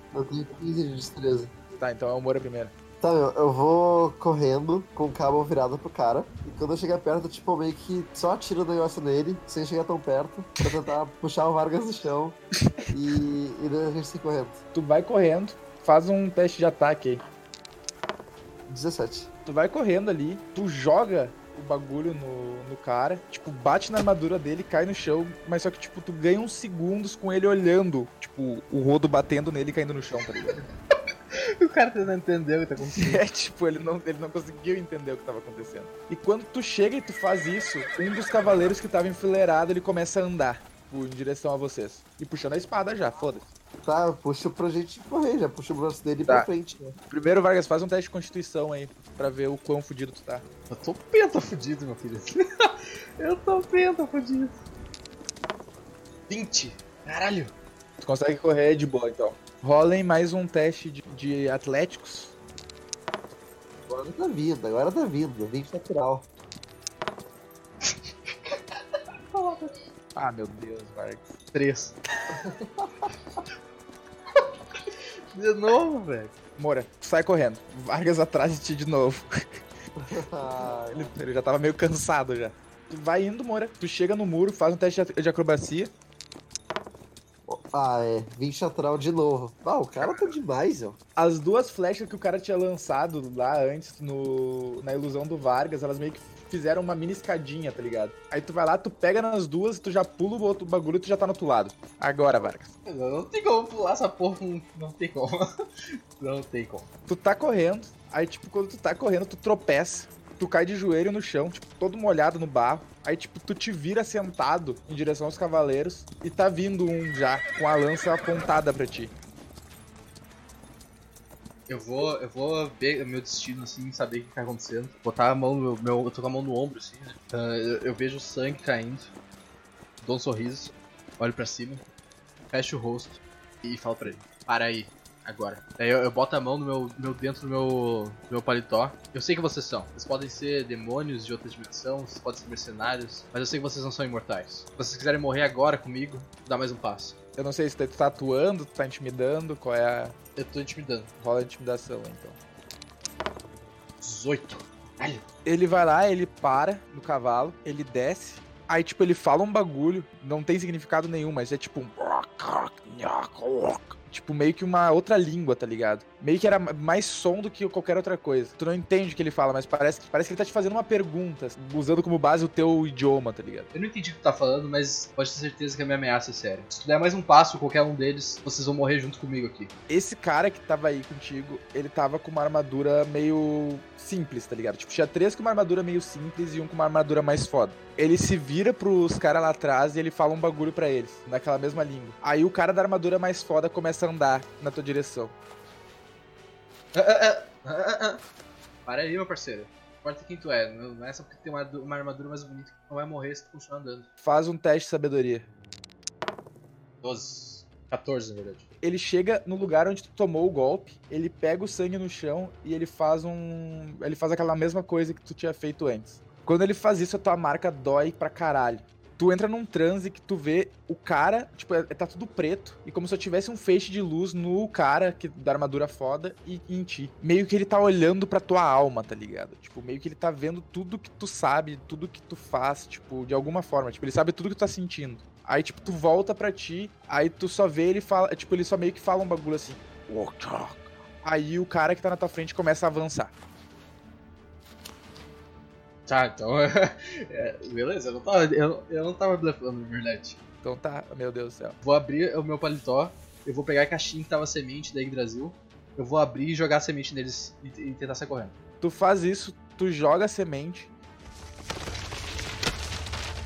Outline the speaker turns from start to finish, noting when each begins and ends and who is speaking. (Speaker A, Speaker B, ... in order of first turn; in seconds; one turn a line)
Speaker A: 0.1-1.5
Speaker B: 1.8-2.7
Speaker A: 3.0-12.4
Speaker A: 12.9-14.6
Speaker B: 14.7-17.2
Speaker A: 18.7-19.3
Speaker B: 19.4-30.6
Speaker C: 31.6-33.2
Speaker B: 32.9-43.5
Speaker A: 43.8-47.0
Speaker B: 47.1-50.5
Speaker C: 50.7-54.6
Speaker C: 56.3-57.5
Speaker B: 58.0-62.3
Speaker A: 63.9-66.3
Speaker C: 67.8-68.8
Speaker C: 69.3-69.8
Speaker B: 70.1-71.3
Speaker C: 71.5-72.0
Speaker A: 72.4-73.0
Speaker C: 75.3-76.3
Speaker B: 76.6-79.6
Speaker A: 80.0-81.1
Speaker B: 80.9-85.9
Speaker A: 87.5-91.0
Speaker C: 90.0-90.3
Speaker B: 91.2-102.7
Speaker C: 102.8-105.4
Speaker C: 106.2-106.8
Speaker B: 107.1-119.1
Speaker C: 121.7-129.1
Speaker C: 130.0-131.8
Speaker C: 132.5-147.2
Speaker B: 147.3-150.1
Speaker C: 150.3-151.1
Speaker B: 151.2-152.4
Speaker C: 154.0-155.2
Speaker B: 155.4-173.7
Speaker C: 173.7-179.7
Speaker B: 179.9-195.3
Speaker C: 196.9-198.2
Speaker C: 198.8-204.1
Speaker B: 204.2-205.4
Speaker C: 207.0-208.7
Speaker B: 208.8-243.3
Speaker C: 246.1-250.4
Speaker B: 250.6-251.8
Speaker C: 251.8-258.5
Speaker B: 258.8-260.9